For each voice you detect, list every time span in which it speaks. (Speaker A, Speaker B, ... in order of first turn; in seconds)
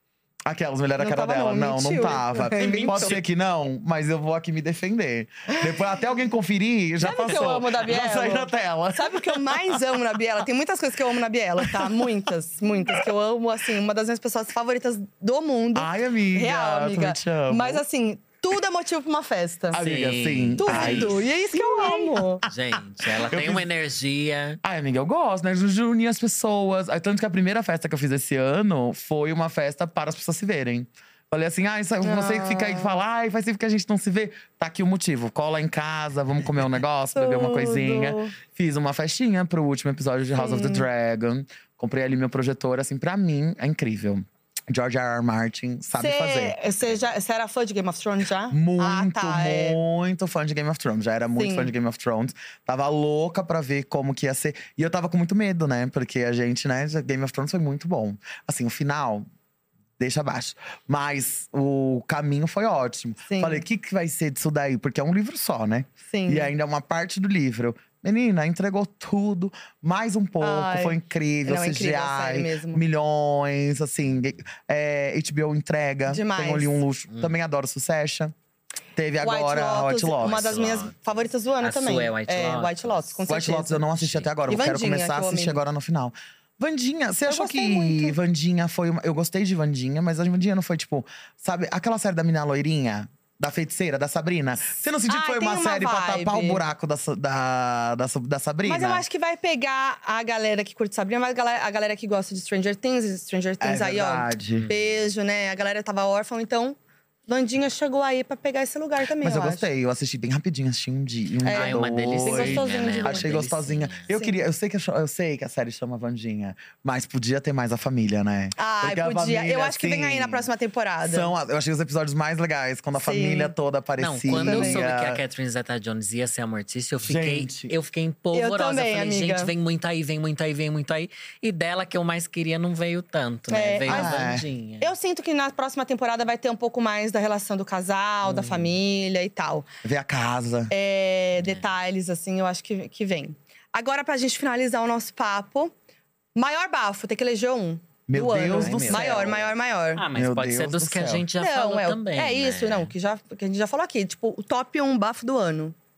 Speaker A: 0.5-9.8, 11.6-12.1, 15.8-17.8, 19.7-22.5, 23.1-23.7, 24.6-46.6, 48.5-59.3, 60.0-78.3, 79.0-80.4, 83.3-99.0, 103.6-104.7, 109.2-120.5, 121.0-125.2, 127.0-127.7, 133.9-134.4, 139.8-140.7, 148.1-149.3, 150.2-151.3
Speaker B: 1.0-3.2, 5.5-5.8, 7.0-19.8, 20.6-22.4, 32.0-33.0, 37.1-38.4, 40.4-40.9, 46.0-49.8, 51.4-51.7, 63.3-63.6, 66.1-66.5, 70.4-72.8, 76.1-76.8, 79.2-83.8, 84.5-85.6, 87.3-88.2, 95.1-96.6, 98.6-109.6, 111.5-113.3, 114.1-114.4, 118.6-121.3, 123.0-123.5, 124.3-124.8, 128.3-129.5, 133.5-139.7, 140.7-145.7, 146.3-150.0, 151.4-155.8
Speaker C: 19.8-21.3, 22.4-24.6, 77.1-77.3, 80.2-83.2, 83.9-84.3, 104.5-105.1, 111.5-114.1, 124.0-134.9, 138.2-138.7, 141.4-141.7, 148.5-152.9